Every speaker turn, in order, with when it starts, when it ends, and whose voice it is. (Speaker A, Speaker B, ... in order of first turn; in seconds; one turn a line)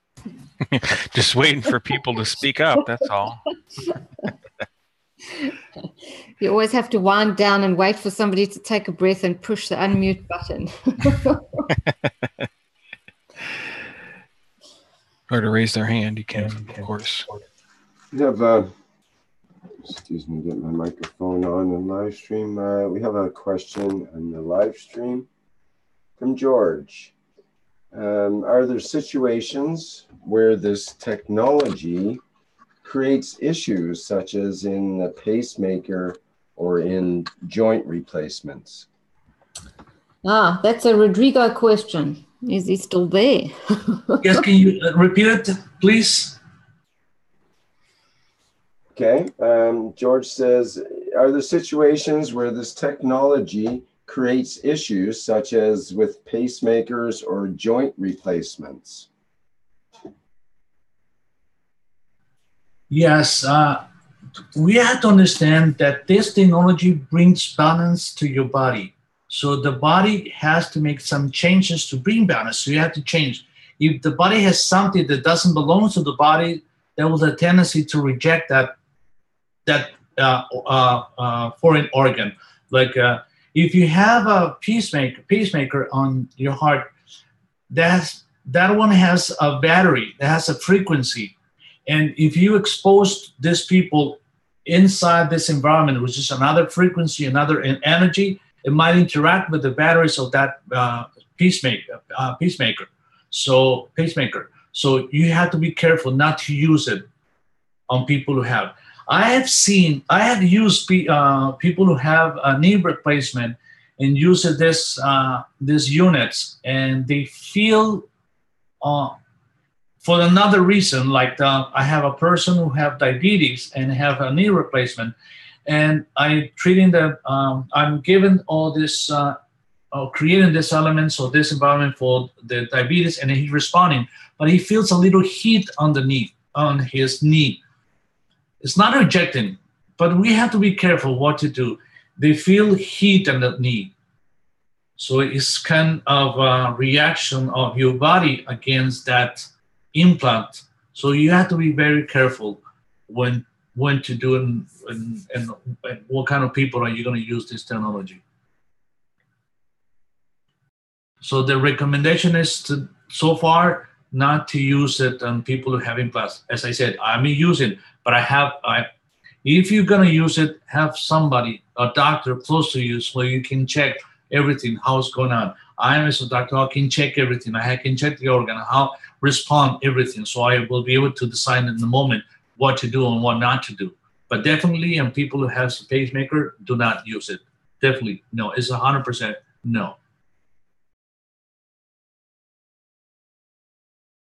Speaker A: 0.7-3.4
Speaker B: 6.4-11.6
Speaker A: 15.3-17.3
Speaker C: 18.1-18.7
Speaker C: 19.8-25.3
Speaker C: 26.2-27.1
Speaker C: 27.9-32.2
Speaker C: 32.8-38.9
Speaker B: 40.2-44.4
Speaker D: 44.2-46.4
Speaker C: 48.9-59.1
Speaker D: 62.9-63.8
Speaker D: 64.5-78.7
Speaker D: 79.7-86.9
Speaker D: 87.7-91.3
Speaker D: 91.9-107.0
Speaker D: 107.9-118.0
Speaker D: 118.8-119.1
Speaker D: 120.0-125.1
Speaker D: 125.7-129.3
Speaker D: 129.9-137.6
Speaker D: 138.6-143.9
Speaker D: 145.0-158.2
Speaker D: 161.2-168.9
Speaker D: 169.4-190.0